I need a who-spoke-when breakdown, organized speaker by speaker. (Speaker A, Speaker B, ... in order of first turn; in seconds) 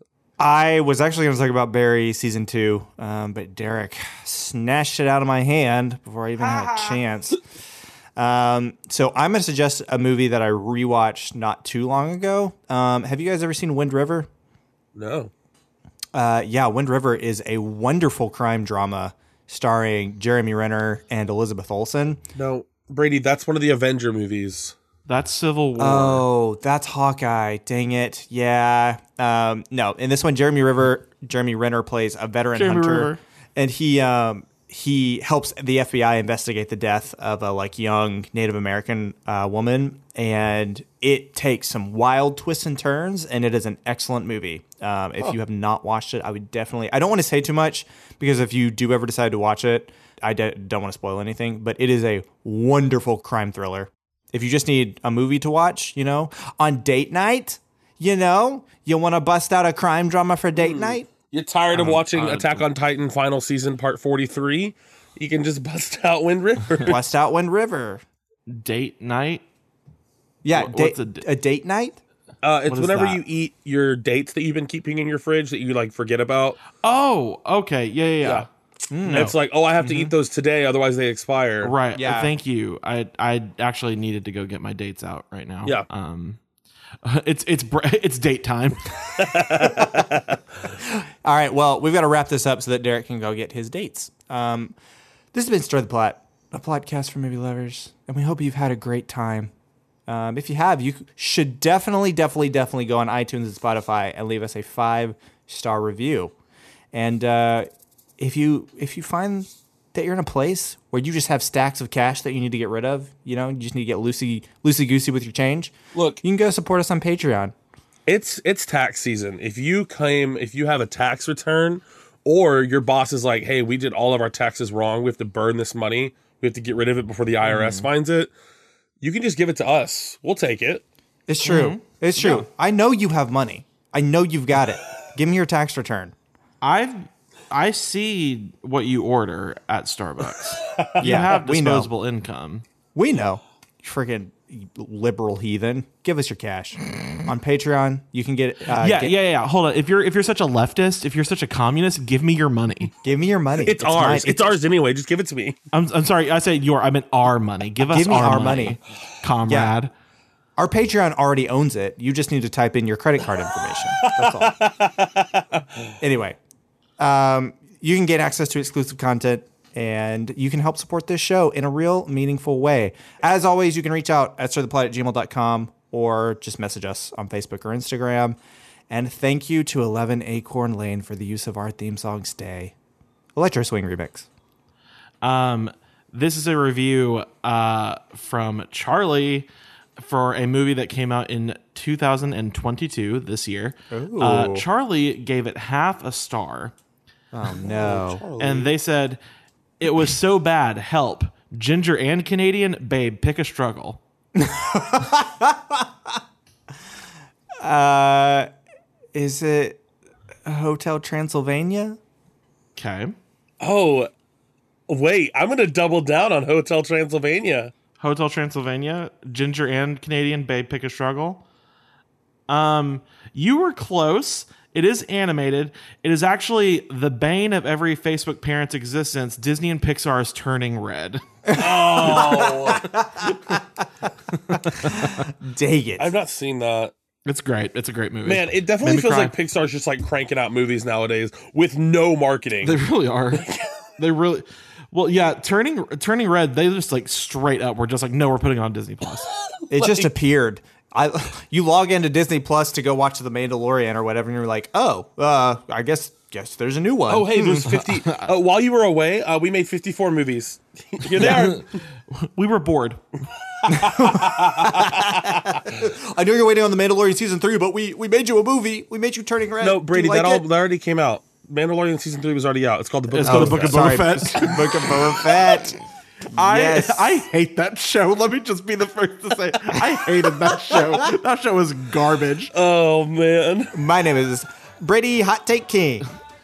Speaker A: 0.4-7.4, 8.2-14.3, 16.1-22.2, 25.8-61.0, 66.8-68.0, 70.4-72.0, 78.9-80.1, 81.9-82.3, 89.7-89.9, 90.8-94.8, 95.3-99.5, 100.1-106.3, 106.9-117.5, 131.3-136.1, 141.0-141.9, 142.9-149.2, 153.0-154.6, 157.9-158.8, 159.4-159.7, 160.6-164.6, 166.0-166.4, 167.0-178.4, 178.9-182.7, 183.3-184.3, 193.9-194.7, 197.3-198.2, 204.3-206.2, 207.6-208.5, 209.1-209.8, 210.5-212.0, 231.5-233.6, 234.7-236.1, 249.7-257.7, 263.7-270.5, 273.2-275.8, 276.3-277.2, 283.7-286.1
Speaker B: 6.4-7.0, 25.1-26.2, 32.5-33.2, 61.7-62.6, 68.5-69.4, 70.5-71.3, 72.7-73.2, 76.8-78.5, 79.1-79.3, 81.6-86.4, 87.0-88.9, 127.5-127.9, 131.4-132.5, 136.6-142.7, 148.8-152.9, 155.7-159.9, 185.2-196.7, 198.3-199.2, 199.8-204.0, 212.8-213.2, 218.0-221.4, 222.5-231.2, 234.3-235.3, 237.3-239.3, 242.6-249.3, 257.6-258.3, 261.1-263.0, 273.2-275.2, 276.3-282.6
Speaker C: 15.0-15.3, 22.4-24.8, 60.6-67.0, 72.4-76.6, 79.1-81.7, 89.2-90.4, 115.9-116.2, 118.1-128.3, 129.0-130.8, 140.7-141.0, 153.6-155.6, 164.0-165.6, 197.6-198.7, 213.6-214.1, 214.9-217.7, 231.6-232.9, 236.0-236.9, 238.2-242.8, 243.3-243.7, 249.7-250.1, 257.1-261.8, 263.6-265.7, 269.6-274.1, 282.5-283.8